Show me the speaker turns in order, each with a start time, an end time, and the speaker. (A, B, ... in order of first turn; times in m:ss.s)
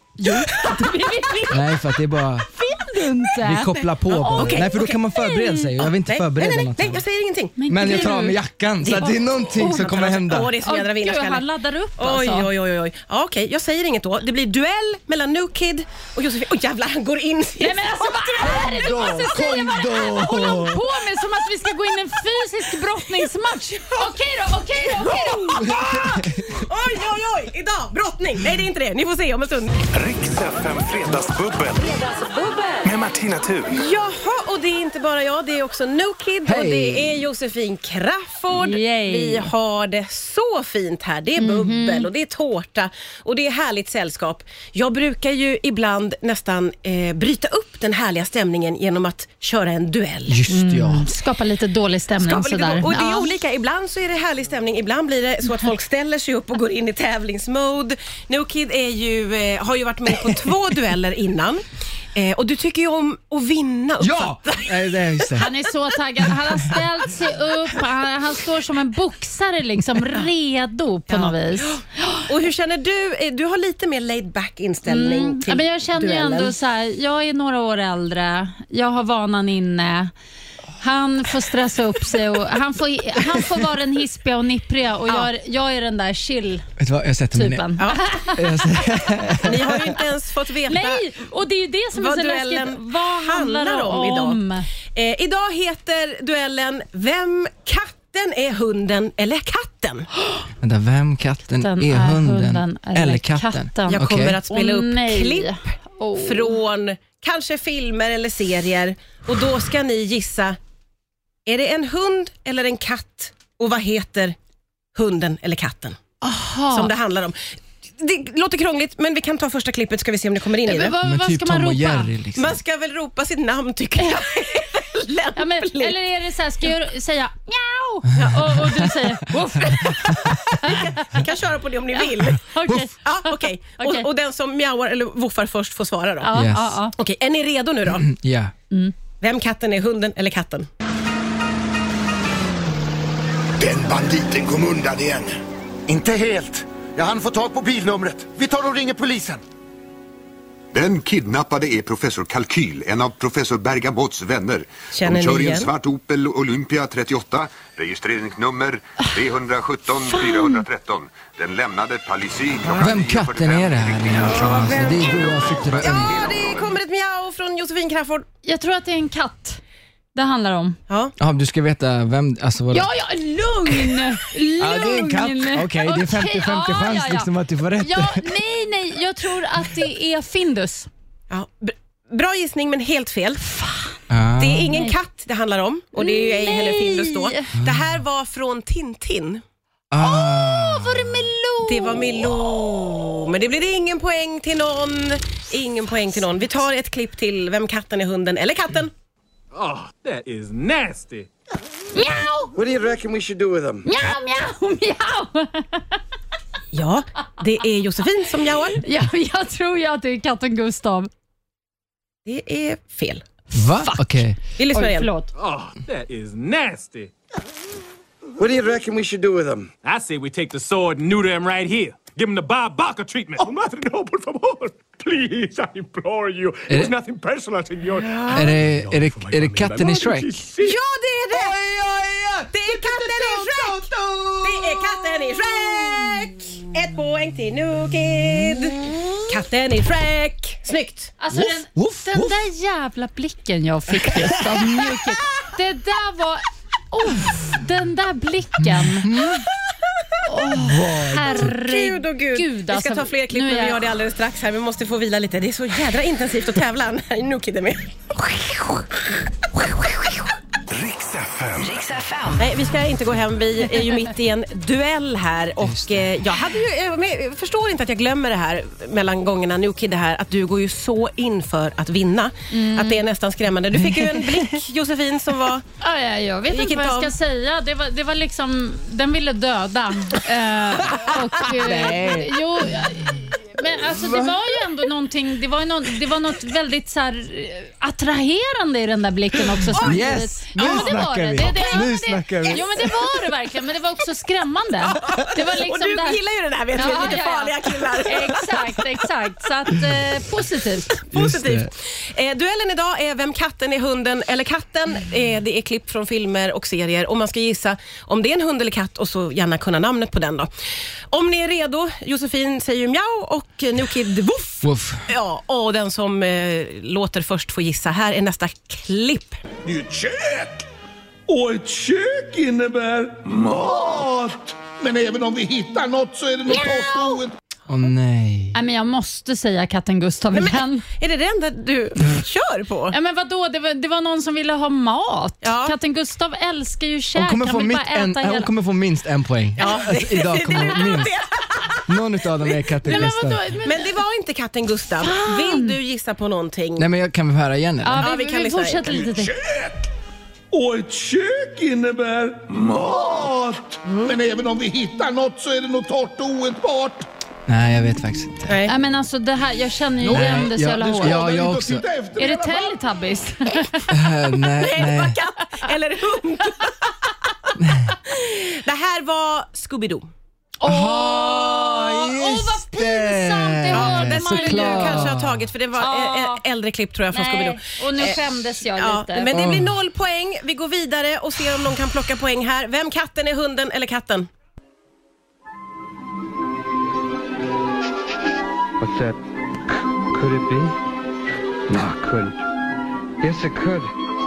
0:00.2-0:01.6 A
0:00.4-0:00.8 B
0:01.5-0:02.5 C
0:02.5-0:05.7 A
0:03.4-0:07.0 C
0:04.3-0:05.0 B
0:05.8-0:08.0 B
0:07.6-0:08.4 A
0:07.7-0:10.5 C
0:08.8-0:11.4 B
0:09.6-0:10.0 A
0:10.6-0:12.5 A
0:12.0-0:19.1 B
0:17.6-0:25.8 A
0:18.7-0:20.8 C
0:24.9-0:29.7 B
0:25.6-0:26.6 C
0:29.9-0:32.0 D
0:32.8-0:33.8 D
0:33.7-0:50.4 B
0:36.4-0:37.1 C
0:38.5-0:39.5 A
0:41.4-0:42.1 A
0:50.3-0:51.1 C
0:50.5-0:53.3 A
0:52.2-1:05.4 B
1:04.0-1:05.5 C
1:05.4-1:12.2 A
1:11.1-1:16.5 B
1:14.9-1:20.1 A
1:20.8-1:26.6 A
1:26.8-1:27.7 C
1:27.3-1:28.9 A
1:27.8-1:28.0 B
1:28.4-1:29.9 C
1:29.4-1:31.1 B
1:30.7-1:34.7 A
1:31.9-1:34.4 B
1:34.9-1:40.1 B
1:40.6-1:44.4 C
1:41.6-1:44.0 A
1:43.9-1:50.6 B
1:44.5-1:46.5 A
1:51.4-1:54.4 B
1:54.9-1:56.0 B
1:56.2-1:56.9 A
1:56.7-1:57.4 B
1:58.0-2:01.0 B
2:00.6-2:02.1 A
2:01.0-2:02.6 C
2:02.4-2:06.0 B
2:04.0-2:04.6 A
2:05.4-2:11.1 A
2:08.2-2:09.0 B
2:10.2-2:16.3 B
2:12.0-2:14.1 A
2:16.2-2:16.9 A
2:16.3-2:16.8 C
2:17.0-2:18.1 B
2:17.9-2:18.5 C
2:19.2-2:20.7 B
2:23.6-2:29.4 E
2:30.7-2:44.7 F
2:34.9-2:35.7 B
2:42.8-2:46.2 C
2:44.4-2:48.2 B
2:45.8-2:46.4 F
2:48.4-2:49.6 A
2:50.1-2:50.8 A
2:50.9-2:51.1 B
2:51.2-2:52.9 C
2:52.7-3:00.9 A
2:54.6-2:58.4 C
3:01.3-3:03.4 B
3:03.5-3:03.9 A
3:04.1-3:04.7 C
3:04.4-3:09.4 B
3:06.0-3:07.5 A
3:09.9-3:11.3 C
3:10.0-3:12.0 A
3:11.6-3:18.9 B
3:19.5-3:21.3 G
3:21.9-3:22.5 A
3:22.5-3:23.8 E
3:23.8-3:26.0 A
3:26.7-3:28.8 B
3:28.8-3:31.1 A
3:32.2-3:33.2 B
3:33.5-3:34.4 C
3:33.6-3:34.2 A
3:34.6-3:35.1 B
3:34.7-3:35.3 A
3:35.3-3:37.1 G
3:38.4-3:39.7 E
3:39.8-3:50.8 G
3:46.7-3:46.9 C
3:48.1-3:48.4 B
3:48.3-3:50.5 C
3:50.6-3:51.6 B
3:51.3-3:56.3 C
3:52.5-3:53.9 B
3:54.4-4:01.1 B
3:58.8-3:59.1 C
4:01.2-4:09.1 A
4:01.3-4:02.4 C
4:04.0-4:04.6 C
4:08.6-4:09.4 C
4:10.2-4:13.8 A
4:10.5-4:11.5 C
4:11.3-4:18.8 B
4:19.5-4:20.2 B
4:20.7-4:22.1 D
4:22.4-4:35.6 B
4:25.6-4:26.2 C
4:32.5-4:33.0 A
4:35.8-4:56.2 A
4:36.5-4:37.1 B
4:41.4-4:42.3 C
4:43.9-4:44.5 C
4:49.8-4:50.0 B
4:49.8-4:52.9 C
4:50.6-4:51.8 B
4:55.0-4:58.5 B
4:56.7-5:01.0 A
5:01.1-5:10.5 B
5:01.1-5:01.7 C
5:11.1-5:19.4 B
5:14.6-5:15.0 C
5:19.6-5:20.6 H
5:21.3-5:27.3 H
5:26.5-5:27.2 A
5:27.7-5:28.6 C
5:28.5-5:30.8 A
5:30.3-5:32.9 B
5:32.9-5:38.5 A
5:35.4-5:35.7 B
5:37.1-5:41.2 C
5:39.6-5:41.8 B
5:41.9-5:43.4 C
5:42.8-5:43.9 A
5:43.6-5:46.9 B
5:45.0-5:45.8 A
5:46.8-5:48.0 C
5:47.8-5:49.3 A
5:48.0-5:48.9 B
5:48.9-5:49.9 H
5:50.5-5:57.0 H
5:57.5-5:58.6 C
5:58.5-5:58.7 B
5:58.7-6:01.2 A
6:00.0-6:02.8 H
6:00.1-6:01.8 C
6:02.2-6:03.9 A
6:03.9-6:05.2 C
6:04.6-6:06.9 B
6:07.6-6:07.9 C
6:08.0-6:10.1 B
6:10.6-6:15.1 A
6:10.6-6:15.5 C
6:13.7-6:24.3 B
6:15.8-6:16.4 A
6:17.1-6:19.3 A
6:19.3-6:19.7 C
6:28.8-6:29.2 I
6:30.1-6:30.7 I
6:31.7-6:32.4 I
6:33.2-6:33.9 I